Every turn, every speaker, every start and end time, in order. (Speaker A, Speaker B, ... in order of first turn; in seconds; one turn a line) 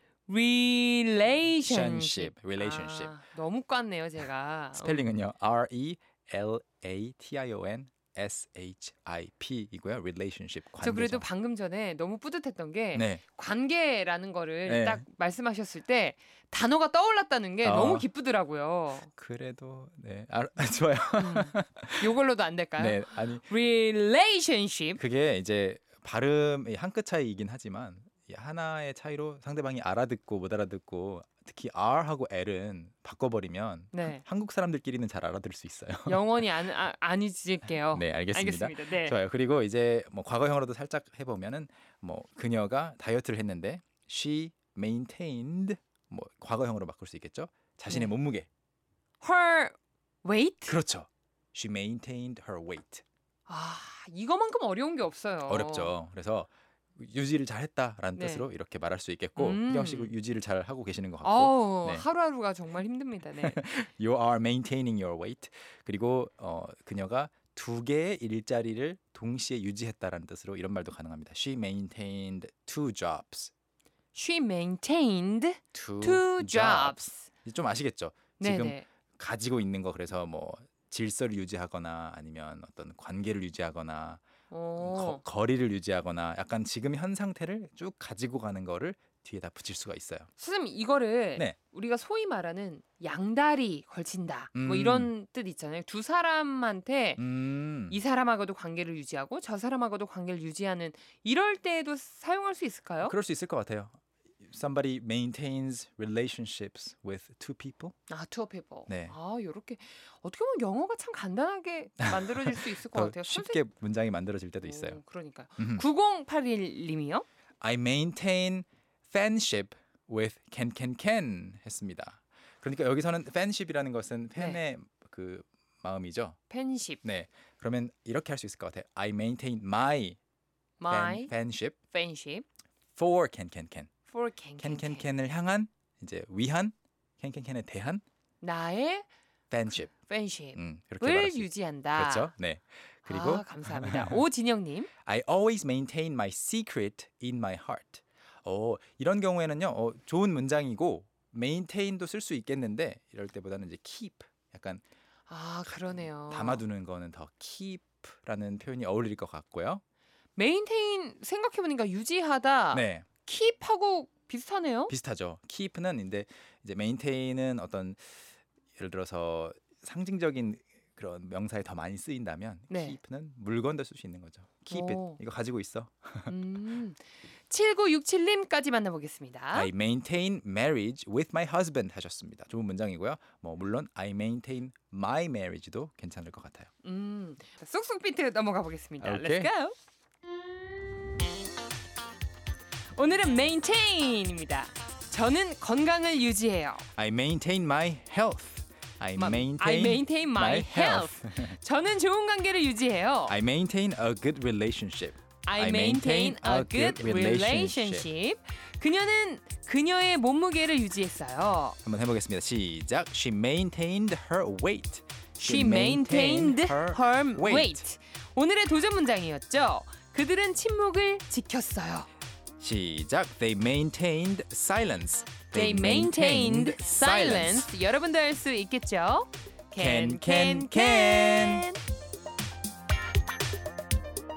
Speaker A: 0.3-5.0
Speaker B: 1.6-3.1
Speaker B: 4.7-11.2
Speaker A: 10.8-19.1
Speaker B: 12.9-13.2
Speaker B: 14.7-15.0
Speaker B: 17.6-18.1
Speaker B: 19.2-22.1
Speaker A: 21.1-25.0
Speaker B: 22.8-23.4
Speaker B: 25.0-36.5
Speaker A: 33.9-34.2
Speaker A: 36.1-39.2
Speaker B: 37.9-48.5
Speaker A: 49.2-50.8
Speaker B: 50.7-53.0
Speaker A: 53.5-55.9
Speaker B: 55.5-62.0
Speaker A: 58.1-58.5
Speaker A: 59.4-60.1
Speaker A: 61.2-63.8
Speaker B: 63.4-73.5
Speaker A: 74.1-77.3
Speaker B: 75.7-84.2
Speaker A: 78.4-78.8
Speaker A: 84.5-85.2
Speaker B: 84.8-90.3
Speaker A: 90.4-97.2
Speaker B: 94.5-95.1
Speaker B: 97.2-98.0
Speaker A: 97.9-103.1
Speaker B: 103.0-108.0
Speaker A: 108.1-113.6
Speaker B: 108.9-109.1
Speaker B: 112.0-115.0
Speaker A: 114.6-117.2
Speaker B: 115.6-115.8
Speaker B: 117.6-126.4
Speaker A: 126.5-127.0
Speaker B: 127.0-130.2
Speaker A: 130.8-131.3
Speaker B: 130.9-131.8
Speaker A: 131.9-132.4
Speaker B: 132.9-133.9
Speaker A: 134.1-135.1
Speaker B: 134.6-138.0
Speaker A: 138.4-139.1
Speaker B: 139.5-139.9
Speaker A: 139.9-142.3
Speaker B: 140.6-144.2
Speaker A: 143.1-144.9
Speaker B: 145.0-154.8
Speaker A: 155.3-156.6
Speaker B: 155.6-159.8
Speaker A: 160.3-164.9
Speaker B: 162.7-163.1
Speaker B: 164.9-176.3
Speaker A: 172.7-173.0
Speaker A: 174.7-175.2
Speaker A: 176.3-179.7
Speaker B: 179.5-186.7
Speaker A: 186.8-189.7
Speaker B: 189.0-189.5
Speaker A: 192.9-196.8
Speaker B: 196.9-201.6
Speaker A: 199.2-203.4
Speaker B: 203.3-208.1
Speaker A: 205.4-211.8
Speaker B: 211.8-217.8
Speaker A: 215.4-222.1
Speaker B: 222.6-227.7
Speaker A: 225.5-231.8
Speaker B: 229.8-231.6